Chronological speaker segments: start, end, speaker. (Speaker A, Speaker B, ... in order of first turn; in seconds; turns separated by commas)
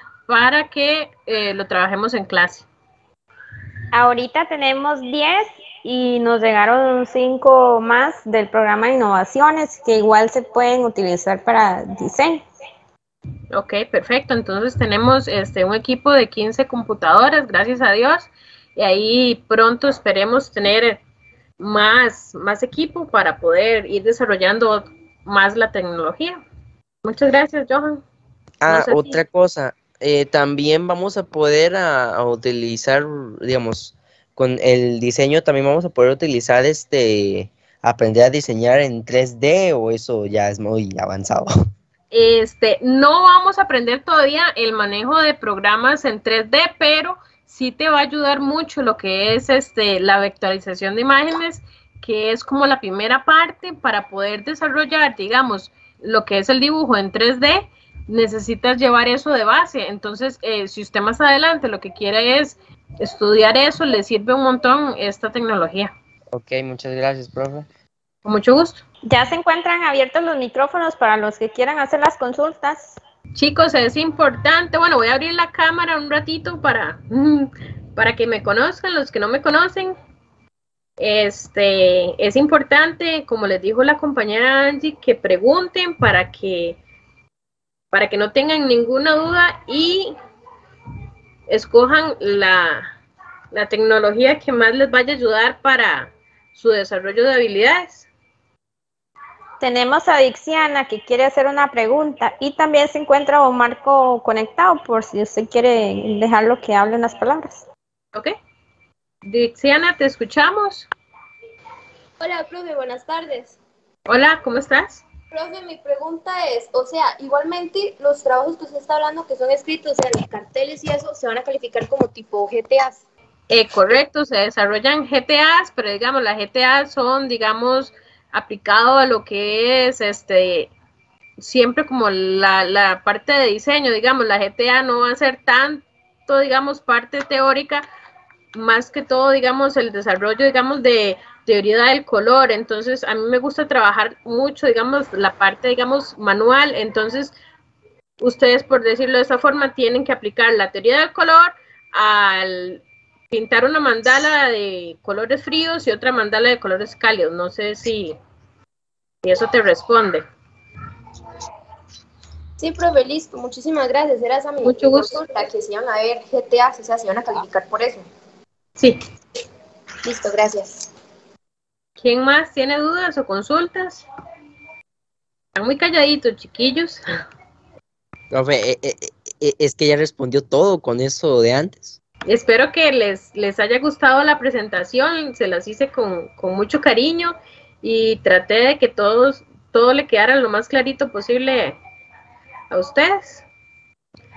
Speaker A: 0.3-2.7, Speaker B: 3.9-12.4, Speaker A: 13.5-21.0, Speaker A: 21.6-26.4, Speaker A: 27.0-28.0, Speaker C: 28.6-41.5, Speaker A: 28.7-29.2, Speaker A: 42.1-65.9, Speaker C: 66.3-67.7, Speaker A: 68.2-68.8, Speaker B: 69.1-73.0, Speaker A: 73.3-80.0, Speaker A: 81.0-86.8, Speaker A: 87.9-90.1, Speaker A: 91.5-92.9, Speaker A: 93.5-98.1, Speaker B: 99.6-107.6, Speaker A: 109.3-110.9, Speaker D: 112.2-113.6, Speaker A: 114.1-115.0, Speaker D: 115.3-123.0, Speaker A: 123.5-130.7, Speaker A: 131.4-137.9, Speaker A: 138.5-147.3, Speaker A: 148.2-158.2, Speaker A: 159.2-160.2, Speaker D: 162.6-168.1, Speaker A: 164.6-165.1, Speaker D: 170.0-170.9, Speaker A: 172.0-174.1, Speaker A: 175.6-177.0, Speaker C: 178.3-182.0, Speaker A: 182.3-191.8, Speaker A: 192.7-193.5